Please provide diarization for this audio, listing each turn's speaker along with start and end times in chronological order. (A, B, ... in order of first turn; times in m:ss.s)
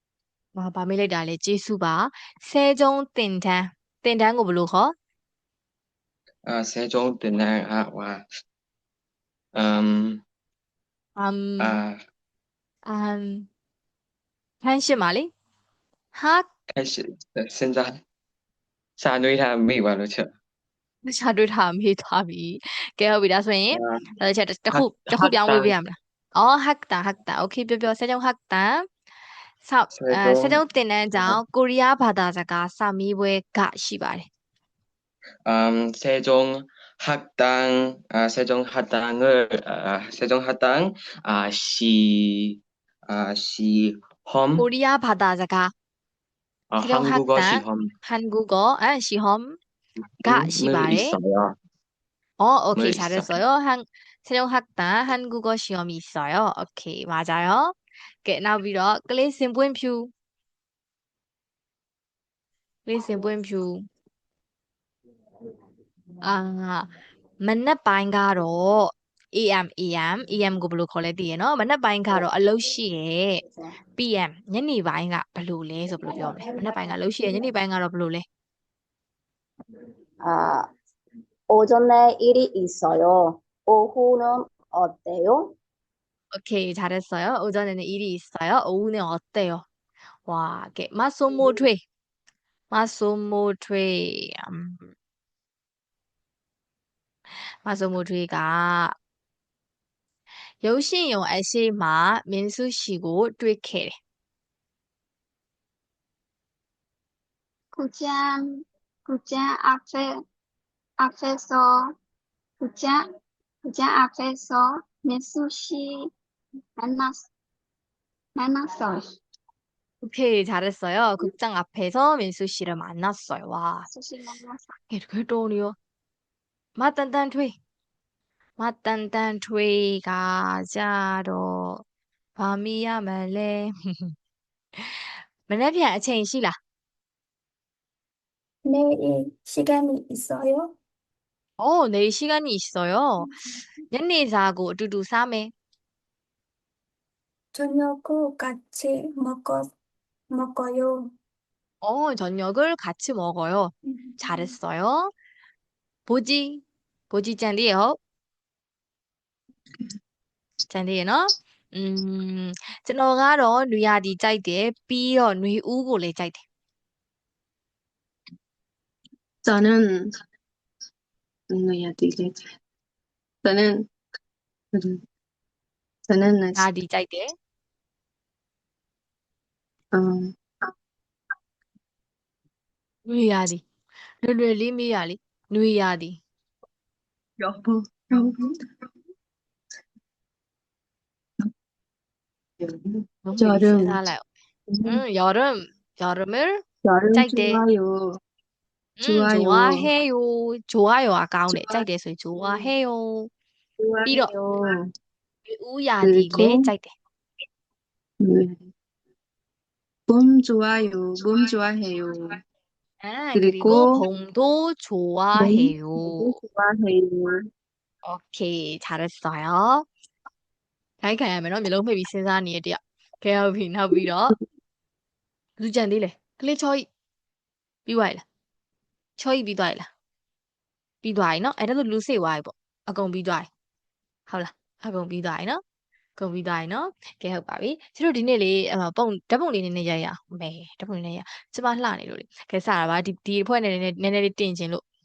0:00.6-0:04.9 A
0:06.4-0:08.2 B
0:09.5-0:10.2 B
0:11.2-0:11.8 A
0:11.6-0:12.0 B
0:12.9-0:13.5 A
0:14.6-0:15.3 A
0:16.1-0:16.5 A
0:16.8-0:18.0 B
0:19.0-0:20.3 B
0:21.0-0:28.8 A
0:23.7-0:24.0 B
0:24.7-0:25.8 B
0:29.6-0:34.2 A
0:29.9-0:30.6 B
0:35.4-0:44.7 B
0:44.6-0:45.7 A
0:46.7-0:47.9 B
0:46.8-0:49.6 A
0:50.2-0:51.5 B
0:50.2-0:51.2 A
0:52.4-1:00.1 A
0:52.8-0:53.4 B
1:02.8-1:03.7 A
1:06.2-1:06.9 A
1:07.4-1:13.4 A
1:13.9-1:18.2 A
1:20.2-1:20.6 C
1:21.5-1:25.5 C
1:26.3-1:29.6 A
1:30.3-1:31.8 A
1:32.7-1:34.9 A
1:37.6-1:38.9 A
1:40.6-1:43.9 A
1:47.8-1:48.4 D
1:49.1-1:50.0 D
1:51.0-1:51.7 D
1:52.6-1:53.0 D
1:53.6-1:55.9 D
1:56.8-1:57.2 D
1:58.4-1:59.0 D
2:00.0-2:03.9 A
2:03.9-2:04.7 D
2:04.9-2:05.8 A
2:06.8-2:07.5 A
2:08.6-2:11.8 A
2:12.4-2:14.1 A
2:15.5-2:16.5 A
2:18.6-2:20.7 E
2:21.6-2:23.4 A
2:23.9-2:25.5 A
2:27.5-2:29.7 E
2:30.3-2:31.1 E
2:31.8-2:35.1 A
2:33.9-2:34.4 E
2:36.1-2:37.9 A
2:40.7-2:46.4 A
2:49.4-2:50.0 F
2:51.5-2:52.5 F
2:53.4-2:53.8 F
2:54.7-2:55.0 F
2:56.1-2:56.6 F
2:56.6-2:57.3 A
2:59.9-3:00.7 F
3:03.1-3:03.6 A
3:04.2-3:06.2 A
3:07.4-3:08.6 F
3:12.6-3:14.0 F
3:13.2-3:14.2 A
3:14.7-3:15.0 F
3:14.8-3:16.6 A
3:16.8-3:18.0 F
3:17.1-3:17.6 A
3:19.0-3:23.3 A
3:19.0-3:19.9 F
3:21.5-3:21.8 F
3:23.8-3:24.8 F
3:24.0-3:24.3 A
3:25.5-3:26.9 A
3:26.0-3:26.7 F
3:28.2-3:28.7 F
3:30.1-3:32.4 F
3:33.0-3:36.3 A
3:33.3-3:34.0 F
3:35.4-3:37.4 F
3:38.0-3:39.9 A
3:41.0-3:44.4 A
3:45.6-3:46.8 A
3:47.8-3:48.2 A
3:49.2-3:49.9 A
3:51.0-3:53.5 A
3:54.3-3:55.6 A
3:56.2-4:04.8 A